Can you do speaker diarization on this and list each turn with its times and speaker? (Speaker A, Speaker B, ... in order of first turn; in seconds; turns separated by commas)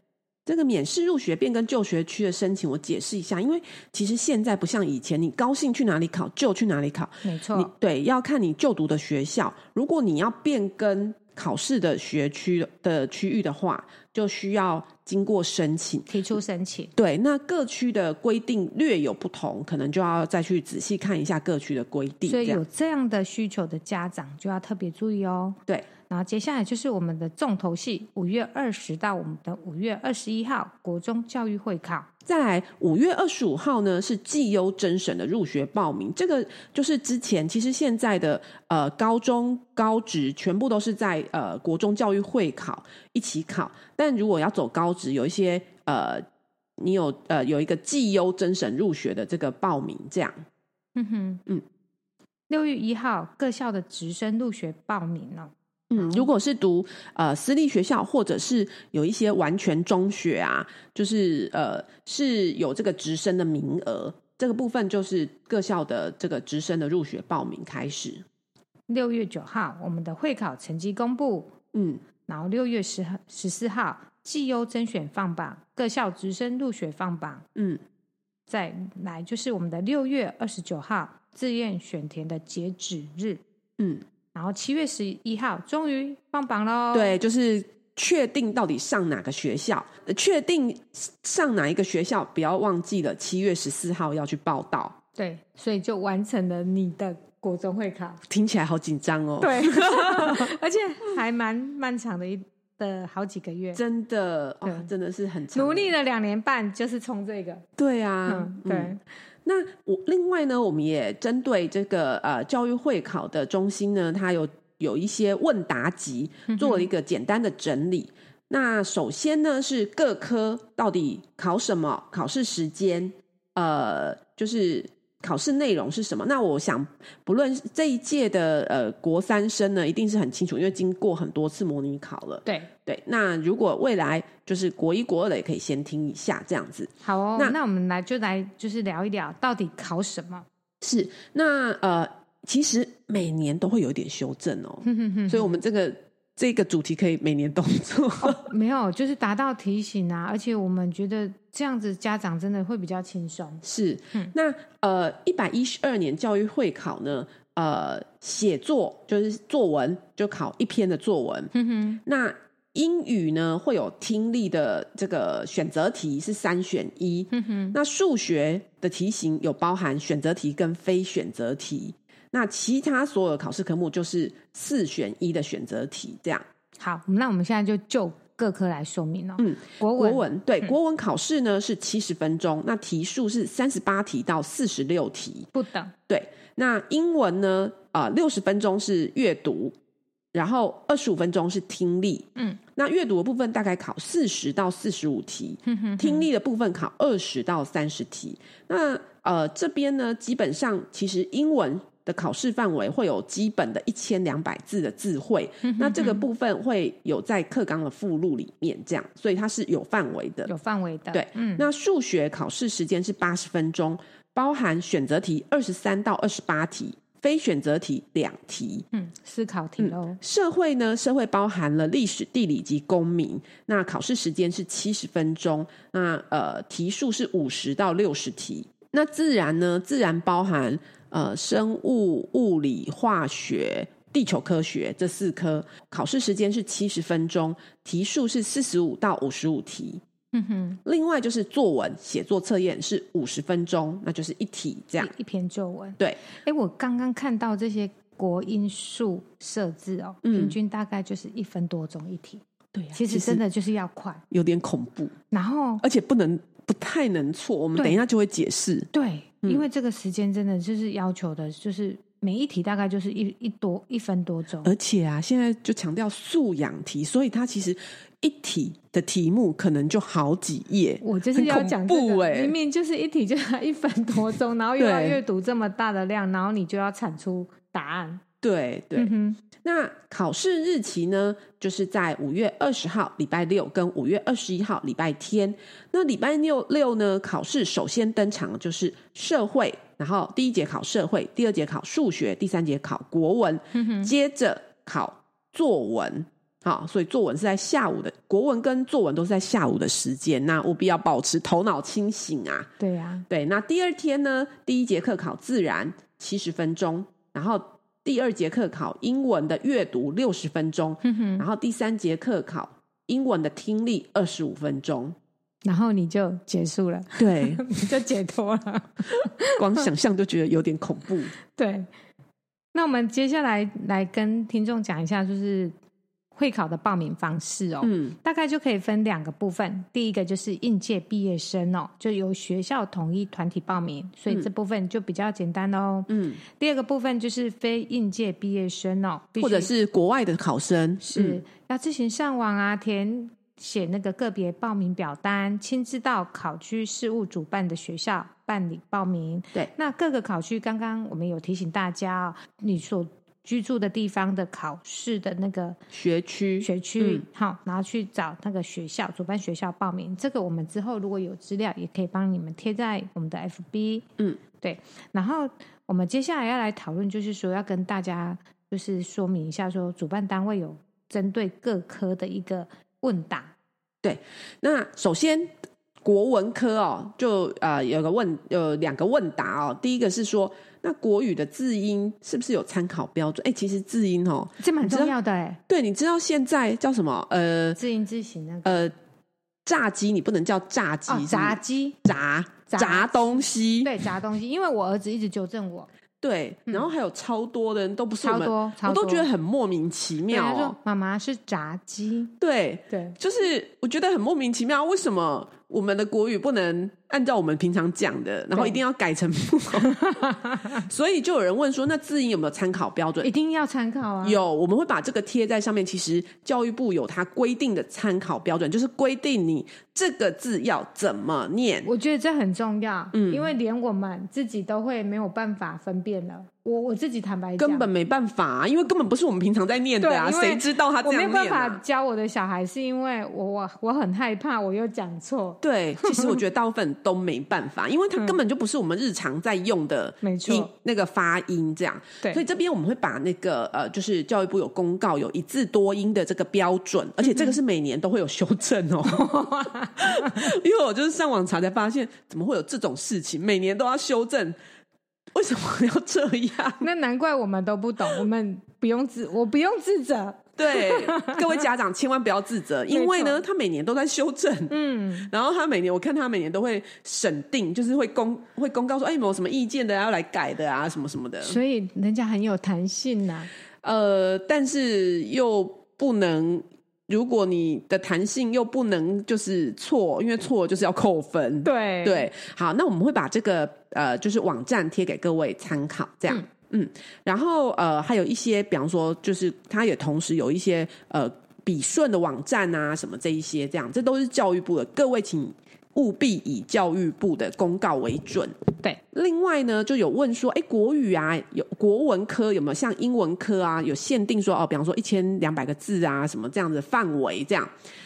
Speaker A: 0.5-16.1, Speaker B: 7.2-7.7, Speaker B: 16.1-16.9, Speaker A: 16.9-22.6, Speaker B: 22.2-25.6, Speaker B: 26.1-32.1, Speaker A: 32.2-46.2, Speaker A: 46.8-50.3, Speaker B: 51.0-51.4, Speaker B: 52.5-56.3, Speaker A: 55.9-68.2, Speaker B: 68.9-71.5, Speaker A: 71.7-72.0, Speaker B: 72.3-77.4, Speaker A: 77.5-77.8, Speaker B: 78.5-83.4, Speaker A: 83.8-84.0, Speaker B: 84.3-87.1, Speaker A: 86.9-94.9, Speaker B: 95.2-98.2, Speaker A: 98.3-100.5, Speaker B: 99.4-103.8, Speaker A: 103.7-105.9, Speaker B: 104.6-104.9, Speaker B: 105.5-107.6, Speaker A: 107.8-108.9, Speaker B: 108.2-109.0, Speaker A: 109.4-137.6, Speaker B: 116.5-116.9, Speaker B: 132.4-132.7, Speaker B: 137.0-140.4, Speaker A: 140.8-148.4, Speaker B: 144.8-145.6, Speaker B: 148.2-153.6, Speaker A: 153.6-161.5, Speaker B: 161.5-162.0, Speaker A: 162.0-176.4, Speaker B: 167.3-167.8, Speaker B: 176.8-180.7, Speaker A: 179.4-185.5, Speaker B: 185.5-185.9, Speaker A: 186.1-189.7, Speaker A: 190.3-210.5, Speaker B: 195.7-196.2, Speaker B: 205.6-206.2, Speaker B: 210.5-211.7, Speaker A: 211.1-218.8, Speaker B: 218.9-220.2, Speaker A: 219.8-240.0, Speaker B: 240.3-240.8, Speaker A: 240.8-245.1, Speaker B: 245.0-252.4, Speaker A: 250.2-250.6, Speaker A: 252.7-253.4, Speaker B: 252.9-254.2, Speaker A: 254.3-255.1, Speaker B: 255.3-255.8, Speaker A: 255.8-258.9, Speaker B: 258.9-264.7, Speaker A: 264.6-272.6, Speaker B: 271.0-278.2, Speaker A: 274.8-275.2, Speaker A: 278.4-279.1, Speaker B: 278.9-279.4, Speaker A: 279.6-302.7, Speaker B: 293.7-294.1, Speaker B: 302.8-303.2, Speaker A: 303.3-315.1, Speaker B: 311.0-311.4, Speaker B: 315.6-319.8, Speaker A: 317.2-317.6, Speaker A: 319.6-321.3, Speaker B: 321.5-321.9, Speaker B: 322.7-325.7, Speaker B: 326.3-339.7, Speaker A: 327.8-328.1, Speaker A: 336.1-336.4, Speaker A: 339.4-341.4, Speaker B: 341.0-355.8, Speaker A: 355.9-357.2, Speaker B: 356.6-364.1, Speaker B: 364.6-373.5, Speaker A: 374.0-375.5, Speaker A: 376.0-385.1, Speaker B: 384.6-385.6, Speaker A: 385.7-387.8, Speaker B: 387.8-388.9, Speaker A: 388.6-388.9, Speaker A: 389.6-393.9, Speaker B: 391.1-392.0, Speaker B: 392.7-395.9, Speaker A: 396.2-400.8, Speaker B: 398.2-399.3, Speaker B: 400.3-402.3, Speaker A: 402.4-413.3, Speaker B: 402.9-403.1, Speaker B: 408.5-408.8, Speaker B: 409.8-410.7, Speaker B: 413.2-414.4, Speaker A: 414.2-421.9, Speaker B: 421.8-427.9, Speaker A: 423.1-423.5, Speaker A: 427.6-431.8, Speaker B: 430.0-436.4, Speaker A: 435.6-454.6, Speaker B: 440.2-440.7, Speaker B: 449.0-450.4, Speaker A: 455.3-456.9, Speaker B: 456.8-461.6, Speaker A: 460.6-471.6, Speaker B: 462.9-463.4, Speaker B: 464.7-465.3, Speaker B: 471.4-473.5, Speaker A: 473.8-498.5, Speaker B: 481.6-482.3, Speaker A: 499.1-507.7